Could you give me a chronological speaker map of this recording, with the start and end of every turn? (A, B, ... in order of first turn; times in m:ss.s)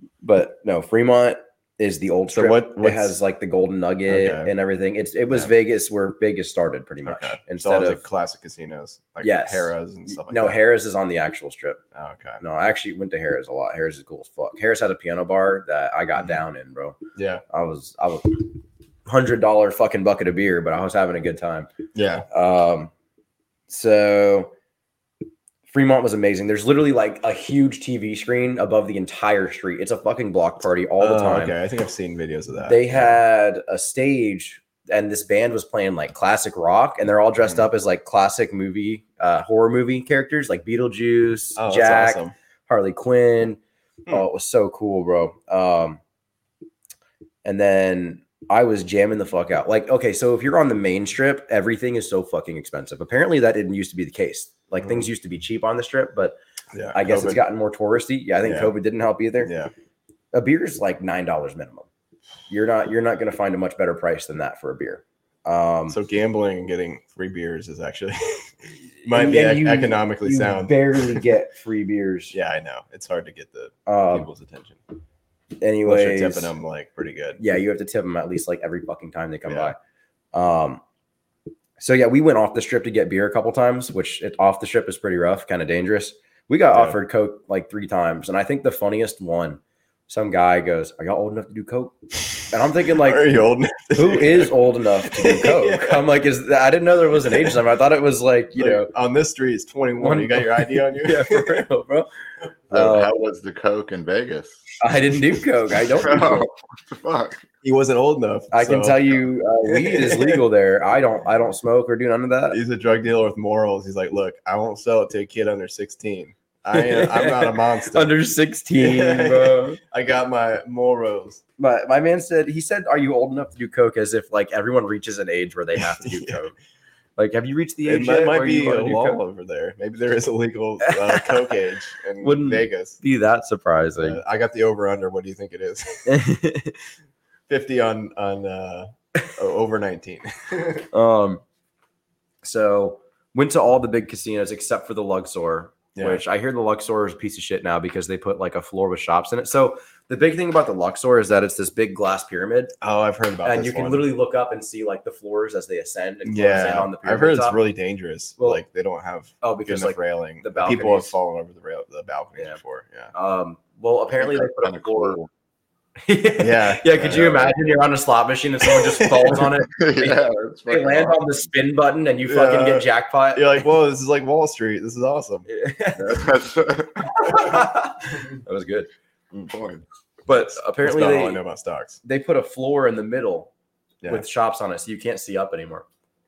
0:00.2-0:08.0 A
0:02.3-0:03.2 B
0:04.1-0:04.5 B
0:07.0-0:10.6 B
0:09.2-0:11.8 A
0:12.0-0:12.4 B
0:12.4-0:17.0 A
0:17.2-0:17.4 B
0:17.5-0:18.5 A
0:19.1-0:21.7 A
0:21.9-0:22.3 B
0:22.3-0:22.9 A
0:23.7-0:24.5 A
0:25.7-0:31.5 A
0:31.0-0:33.2 B
0:32.6-0:46.0 A
0:41.6-0:42.3 B
0:47.4-0:56.4 A
0:54.8-0:55.1 B
0:56.7-0:57.4 B
0:56.9-0:59.5 A
0:58.4-0:58.7 B
0:59.4-0:59.7 B
1:00.3-1:01.9 A
1:02.5-1:06.0 A
1:05.9-1:11.3 B
1:09.0-1:12.4 A
1:12.3-1:14.8 B
1:13.9-1:14.3 A
1:15.6-1:16.5 A
1:15.8-1:17.4 B
1:17.4-1:19.8 A
1:19.5-1:19.7 B
1:20.3-1:20.8 A
1:21.8-1:33.3 A
1:32.8-1:36.1 B
1:33.9-1:38.9 A
1:37.2-1:37.6 B
1:38.6-1:41.7 B
1:40.0-1:42.1 A
1:42.7-1:43.1 A
1:42.7-1:44.6 C
1:44.8-1:46.5 A
1:46.0-1:47.4 C
1:47.6-1:50.4 B
1:48.5-1:52.6 A
1:52.5-1:58.1 B
1:56.7-1:59.8 A
1:58.8-2:01.4 B
2:01.6-2:06.6 A
2:05.8-2:06.4 B
2:07.2-2:09.2 A
2:07.9-2:13.0 B
2:10.8-2:11.4 A
2:12.2-2:14.2 A
2:14.0-2:16.2 B
2:16.1-2:16.8 A
2:17.5-2:20.9 B
2:20.9-2:21.4 A
2:22.4-2:32.8 A
2:26.0-2:26.2 B
2:32.8-2:34.1 B
2:33.4-2:37.6 A
2:36.2-2:43.1 B
2:38.4-2:38.6 A
2:39.4-2:41.2 A
2:43.1-2:45.2 A
2:44.1-2:45.3 C
2:46.0-2:53.6 A
2:46.4-2:47.6 B
2:48.6-2:49.6 B
2:49.8-2:51.4 C
2:52.3-2:55.5 B
2:55.5-2:56.3 A
2:56.0-2:57.3 C
2:57.2-2:58.9 A
2:59.5-2:59.8 C
3:00.3-3:01.4 A
3:00.3-3:02.0 B
3:02.0-3:03.5 A
3:04.1-3:05.9 A